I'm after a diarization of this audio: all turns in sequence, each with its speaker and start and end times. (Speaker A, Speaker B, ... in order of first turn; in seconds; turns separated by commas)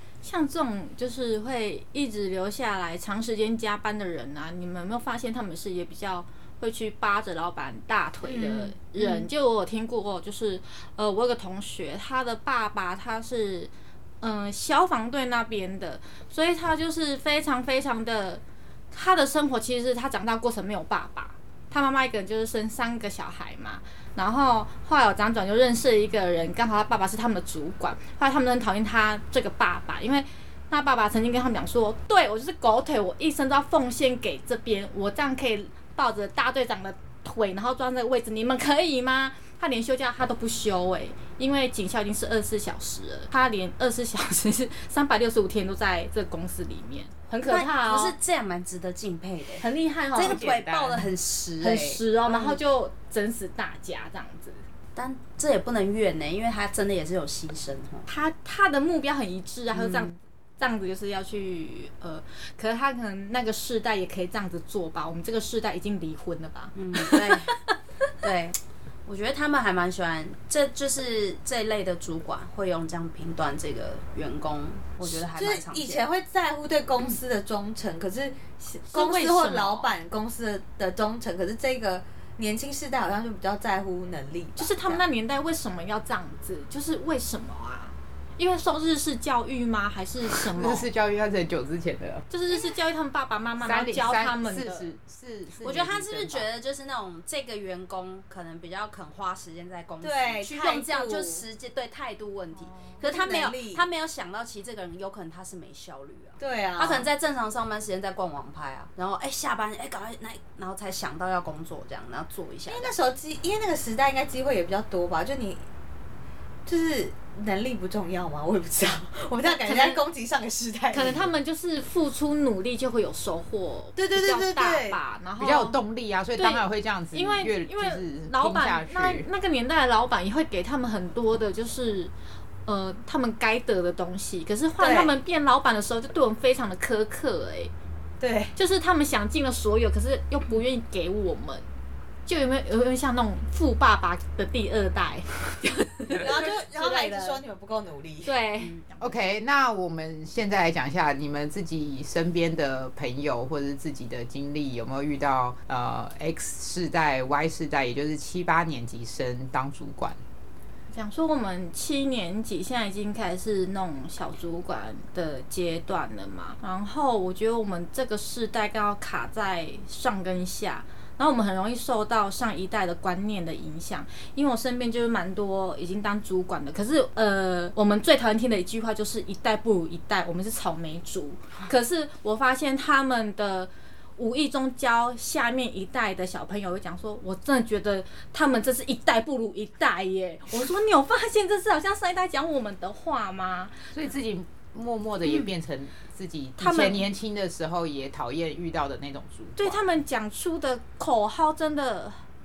Speaker A: 0.2-48.1, Speaker B: 8.2-8.7, Speaker C: 47.5-52.6, Speaker A: 49.6-50.5, Speaker D: 50.2-51.1, Speaker A: 51.6-54.6, Speaker C: 54.9-58.1, Speaker A: 58.1-67.5, Speaker C: 59.7-60.1, Speaker C: 66.7-67.5, Speaker C: 68.2-76.0, Speaker B: 75.0-85.0, Speaker A: 78.9-79.9, Speaker A: 84.6-90.9, Speaker D: 90.5-92.2, Speaker A: 92.3-94.9, Speaker D: 93.6-96.5, Speaker C: 95.6-113.0, Speaker B: 100.0-101.5, Speaker B: 103.0-103.8, Speaker B: 106.4-107.1, Speaker B: 112.7-115.6, Speaker B: 116.7-121.3, Speaker A: 119.4-120.0, Speaker A: 120.9-125.8, Speaker B: 124.0-125.0, Speaker D: 125.4-129.3, Speaker A: 126.3-132.1, Speaker A: 132.7-137.7, Speaker B: 134.8-135.1, Speaker B: 138.2-138.5, Speaker A: 138.6-141.6, Speaker A: 142.2-147.4, Speaker B: 146.1-148.3, Speaker A: 148.2-148.8, Speaker D: 149.0-160.2, Speaker A: 160.9-193.9, Speaker D: 193.9-199.8, Speaker A: 196.6-197.0, Speaker A: 199.6-202.2